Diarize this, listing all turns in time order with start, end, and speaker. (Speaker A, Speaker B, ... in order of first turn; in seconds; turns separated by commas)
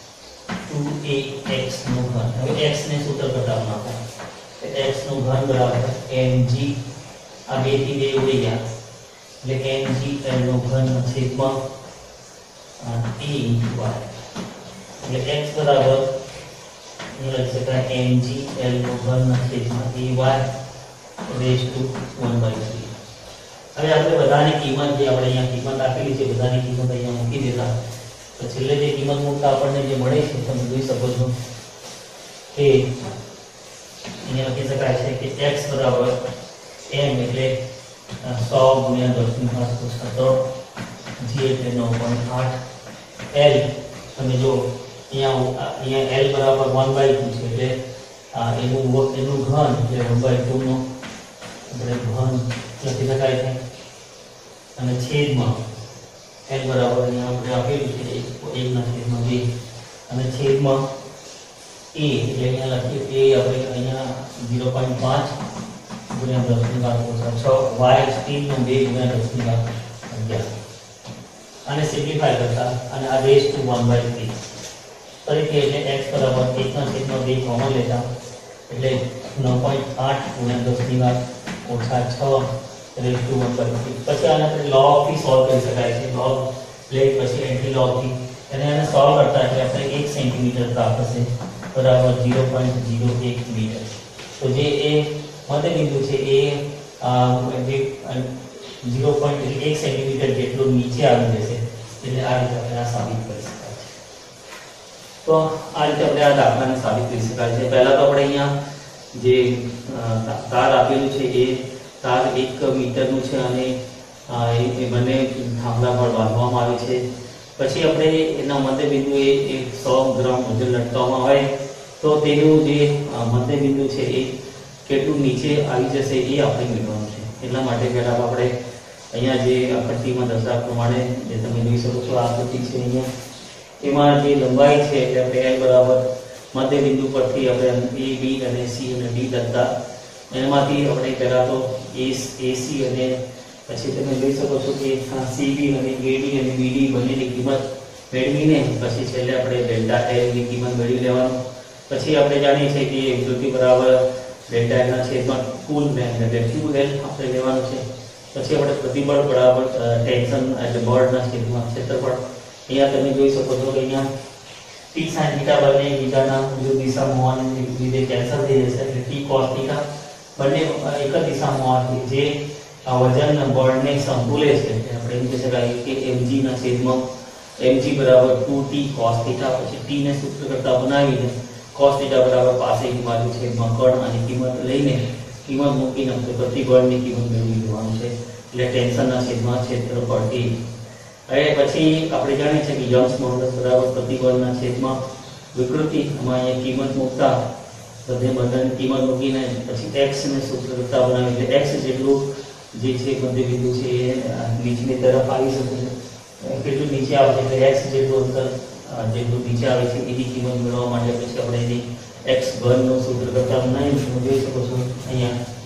Speaker A: 0.6-4.0, Speaker A: 4.6-6.8, Speaker A: 7.5-8.6, Speaker A: 9.4-11.6, Speaker A: 12.8-14.1, Speaker A: 15.0-16.1, Speaker A: 17.1-20.5, Speaker A: 21.2-22.9, Speaker A: 23.7-27.7, Speaker A: 28.3-31.3, Speaker A: 32.5-33.1, Speaker A: 34.2-36.2, Speaker A: 36.8-37.5, Speaker A: 38.2-40.4, Speaker A: 41.2-42.6, Speaker A: 43.3-47.8, Speaker A: 48.3-50.8, Speaker A: 51.7-53.6, Speaker A: 54.8-55.6, Speaker A: 56.5-59.4, Speaker A: 60.1-60.9, Speaker A: 61.9-65.3, Speaker A: 66.1-70.5, Speaker A: 71.7-74.5, Speaker A: 75.2-78.1, Speaker A: 78.7-103.9, Speaker A: 105.2-108.5, Speaker A: 109.1-113.8, Speaker A: 114.3-117.0, Speaker A: 117.6-121.5, Speaker A: 122.0-128.5, Speaker A: 129.1-133.1, Speaker A: 133.8-139.7, Speaker A: 140.3-164.1, Speaker A: 164.9-169.8, Speaker A: 170.3-177.0, Speaker A: 177.6-190.6, Speaker A: 191.3-195.0, Speaker A: 195.5-197.4, Speaker A: 198.0-215.4